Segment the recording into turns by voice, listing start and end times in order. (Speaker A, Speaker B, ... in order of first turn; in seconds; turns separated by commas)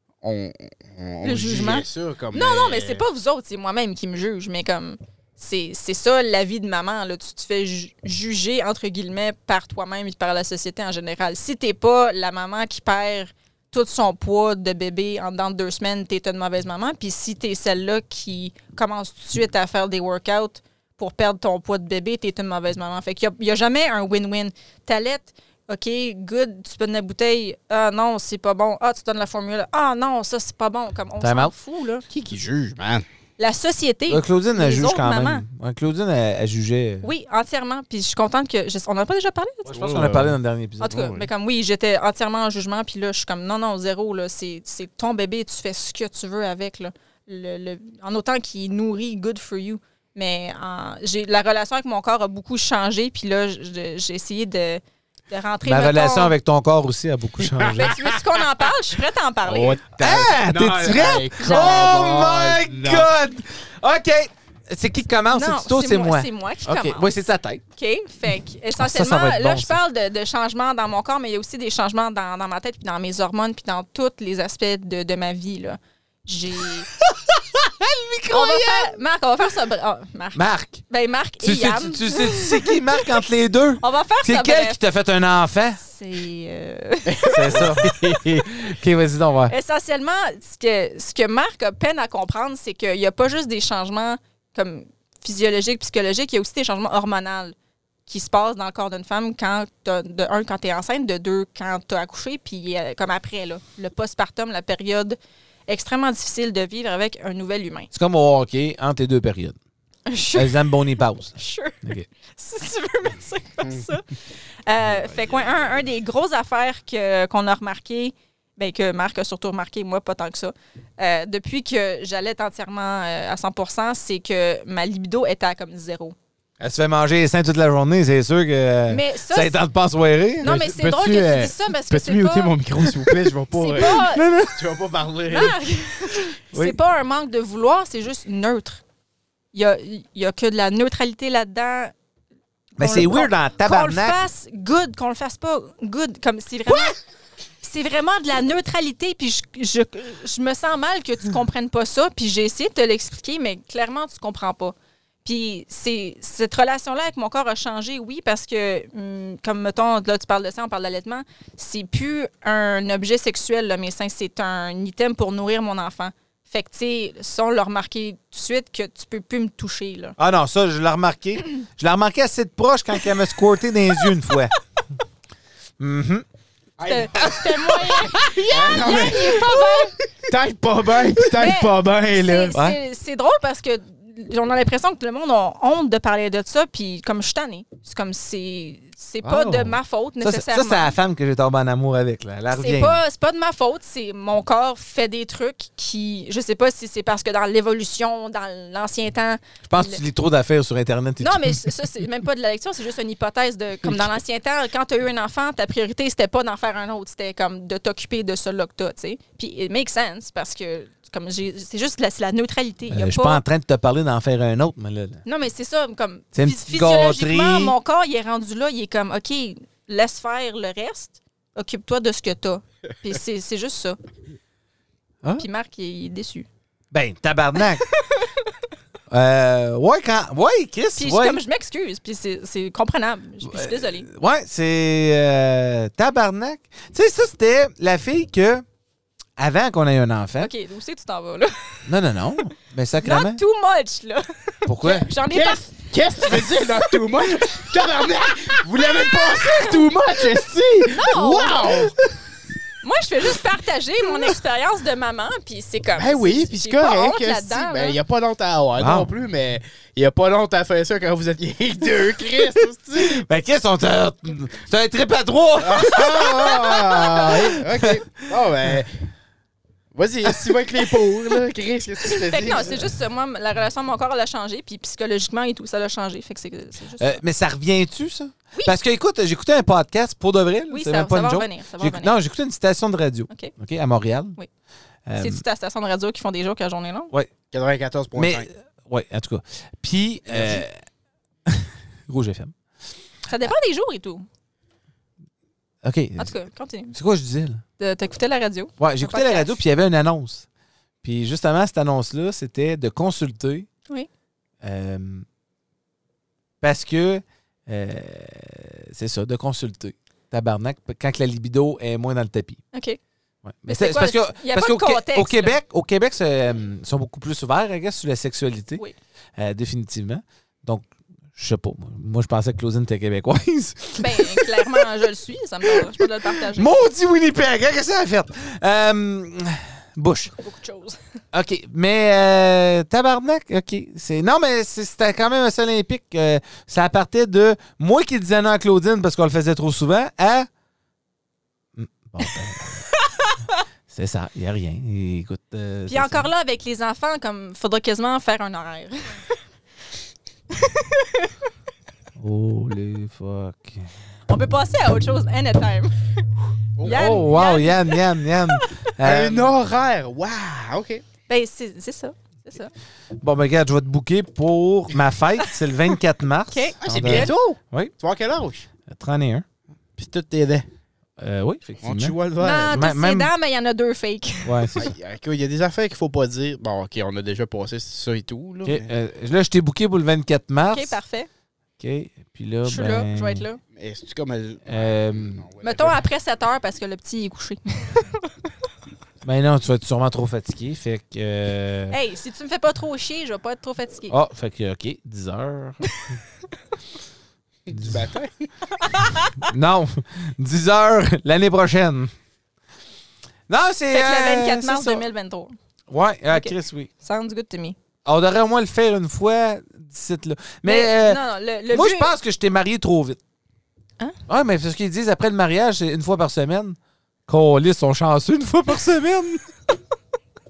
Speaker A: 0.2-3.0, Speaker B: 1.2-32.0, Speaker C: 31.2-31.5, Speaker A: 32.1-33.0, Speaker B: 33.4-35.4, Speaker C: 34.1-37.1, Speaker B: 37.0-39.7, Speaker C: 39.6-41.0, Speaker A: 39.7-40.4, Speaker B: 40.8-56.3, Speaker A: 40.9-41.3, Speaker C: 55.6-58.0, Speaker A: 57.4-57.9, Speaker B: 57.7-59.8, Speaker A: 59.4-63.1, Speaker C: 60.0-67.6, Speaker B: 61.4-62.0, Speaker B: 65.3-67.2, Speaker B: 67.8-76.9, Speaker C: 68.8-69.8, Speaker C: 77.1-78.9, Speaker B: 78.3-82.8, Speaker C: 80.3-80.8, Speaker C: 81.4-85.8, Speaker B: 83.8-84.8, Speaker B: 85.8-87.7, Speaker A: 87.1-88.5, Speaker C: 87.3-89.5, Speaker B: 89.5-97.5, Speaker B: 98.1-107.9, Speaker C: 107.9-109.6, Speaker B: 110.1-110.8, Speaker C: 110.3-112.1, Speaker B: 111.4-114.1, Speaker B: 114.7-126.1, Speaker A: 115.1-115.4, Speaker C: 126.6-130.5, Speaker B: 128.9-129.6, Speaker B: 130.4-132.6, Speaker A: 130.4-135.6, Speaker B: 133.6-134.2, Speaker C: 133.8-134.6, Speaker B: 135.3-138.8, Speaker B: 139.5-141.9, Speaker C: 142.8-144.2, Speaker B: 142.8-146.9, Speaker B: 147.6-170.2, Speaker C: 170.2-174.5, Speaker C: 175.8-176.2, Speaker A: 176.8-177.6, Speaker B: 176.8-180.0, Speaker C: 177.2-178.8, Speaker A: 178.4-182.6, Speaker B: 181.3-190.9, Speaker C: 189.2-193.0, Speaker B: 192.5-200.0, Speaker C: 199.6-201.8, Speaker B: 201.2-213.4, Speaker C: 212.9-215.2, Speaker B: 215.2-224.0, Speaker C: 216.3-217.7, Speaker B: 225.4-226.5, Speaker C: 226.9-227.8, Speaker B: 227.8-228.5, Speaker C: 229.1-231.4, Speaker B: 231.0-234.1, Speaker C: 233.4-238.6, Speaker C: 239.4-240.5, Speaker B: 240.4-241.9, Speaker C: 241.8-243.4, Speaker B: 243.0-247.0, Speaker C: 244.7-245.1, Speaker A: 245.3-251.9, Speaker B: 249.3-249.8, Speaker B: 250.9-251.9, Speaker B: 252.8-258.0, Speaker A: 255.9-263.2, Speaker C: 258.8-259.1, Speaker C: 263.0-267.9, Speaker A: 265.6-269.0, Speaker A: 269.9-272.9, Speaker C: 270.3-270.6, Speaker B: 272.1-277.2, Speaker C: 277.0-284.4, Speaker B: 280.7-282.1, Speaker C: 285.1-285.4, Speaker B: 285.2-287.1, Speaker A: 287.5-288.5, Speaker C: 288.1-290.8, Speaker A: 290.3-290.6, Speaker C: 291.5-292.5, Speaker B: 293.3-294.2, Speaker C: 295.8-296.3, Speaker B: 296.2-296.9, Speaker C: 296.9-297.6, Speaker B: 297.8-299.6, Speaker C: 298.8-300.4, Speaker C: 301.0-303.7, Speaker C: 304.6-305.2, Speaker C: 306.6-312.6, Speaker B: 312.7-313.0, Speaker C: 313.4-318.8, Speaker B: 313.7-315.6, Speaker C: 319.4-324.9, Speaker B: 324.0-326.7, Speaker C: 325.6-330.3, Speaker B: 330.3-331.0, Speaker C: 331.3-340.5, Speaker C: 341.8-342.8, Speaker B: 343.1-343.6, Speaker C: 343.9-346.3, Speaker B: 345.9-349.2, Speaker B: 350.5-351.3, Speaker C: 352.2-353.9, Speaker B: 354.3-356.2, Speaker A: 356.8-357.3, Speaker B: 356.8-358.8, Speaker C: 356.8-359.5, Speaker A: 359.0-361.0, Speaker B: 361.3-362.7, Speaker C: 363.2-367.9, Speaker B: 366.5-367.3, Speaker A: 366.8-368.7, Speaker C: 368.9-369.4, Speaker A: 369.9-370.7, Speaker C: 371.2-372.2, Speaker A: 371.8-372.8, Speaker B: 372.4-374.7, Speaker C: 372.7-373.3, Speaker C: 374.4-374.9, Speaker A: 374.8-378.9, Speaker C: 378.6-381.0, Speaker B: 380.7-381.3, Speaker C: 381.8-383.4, Speaker B: 382.6-383.6, Speaker A: 383.7-386.0, Speaker C: 384.7-385.4, Speaker B: 385.6-388.3, Speaker C: 389.2-391.9, Speaker B: 391.9-394.1, Speaker C: 394.1-395.8, Speaker A: 397.7-398.5, Speaker C: 397.7-398.0, Speaker B: 398.8-399.3, Speaker C: 399.4-402.1, Speaker C: 403.5-405.0, Speaker B: 403.9-405.6, Speaker C: 405.9-406.9, Speaker B: 406.3-407.8, Speaker C: 408.0-411.2, Speaker B: 410.6-412.1, Speaker C: 411.7-413.2, Speaker C: 414.3-419.4